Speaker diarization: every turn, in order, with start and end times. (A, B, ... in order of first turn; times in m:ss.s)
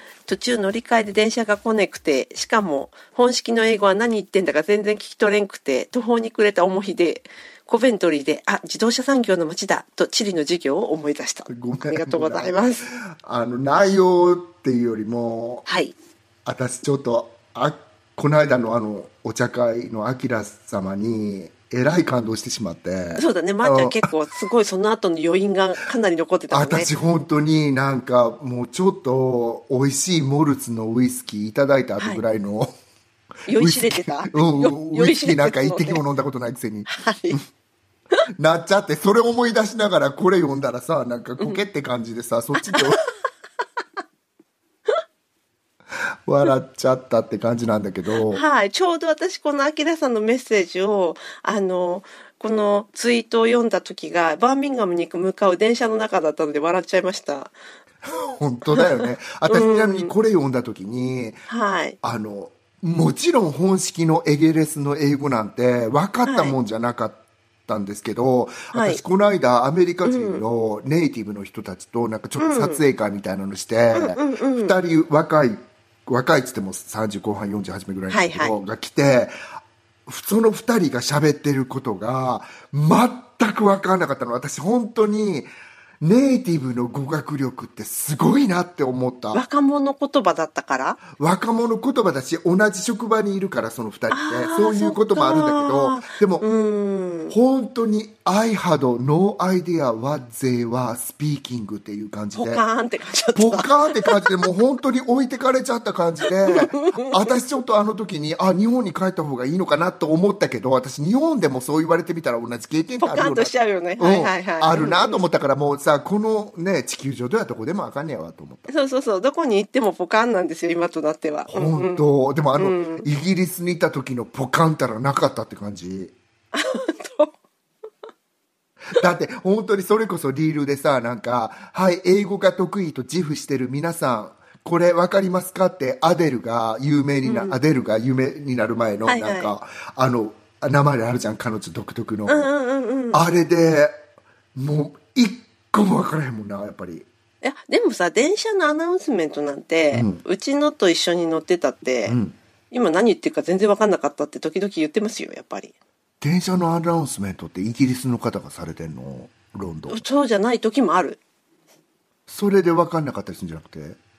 0:00.2-0:12.9 A
0:11.5-0:15.7 B
0:15.6-0:15.9 A
0:16.4-0:24.1 B
0:23.2-0:26.9 A
0:26.5-0:32.7 B
0:32.0-0:32.2 A
0:33.5-0:36.0 A
0:33.6-0:37.4 B
0:36.9-0:37.4 A
0:38.4-0:43.0 B
0:41.4-0:41.6 A
0:42.6-0:42.9 A
0:46.2-0:48.4 B
0:48.3-0:57.5 A
0:58.0-1:01.5 B
0:58.7-1:00.1 A
1:01.5-1:02.0 A
1:02.0-1:19.3 B
1:06.2-1:06.6 A
1:08.7-1:09.0 A
1:10.0-1:10.4 A
1:12.4-1:12.8 A
1:13.9-1:14.8 A
1:18.1-1:18.6 A
1:20.1-1:25.5 B
1:26.0-1:29.4 B
1:29.3-1:31.0 A
1:31.1-1:36.5 B
1:34.1-1:37.4 A
1:37.3-1:42.6 B
1:42.4-1:44.2 A
1:43.3-1:58.7 B
1:46.5-1:47.3 A
1:53.0-1:55.2 A
1:58.7-2:03.1 A
2:01.5-2:06.1 B
2:06.5-2:07.3 A
2:09.0-2:22.5 B
2:17.2-2:17.6 A
2:19.0-2:19.5 A
2:22.3-2:23.2 A
2:23.1-2:23.9 B
2:24.5-2:27.0 B
2:27.4-2:32.2 A
2:29.9-2:30.2 B
2:32.1-2:32.4 B
2:32.7-2:35.7 A
2:36.2-2:40.0 B
2:39.9-2:41.2 A
2:42.3-2:44.0 B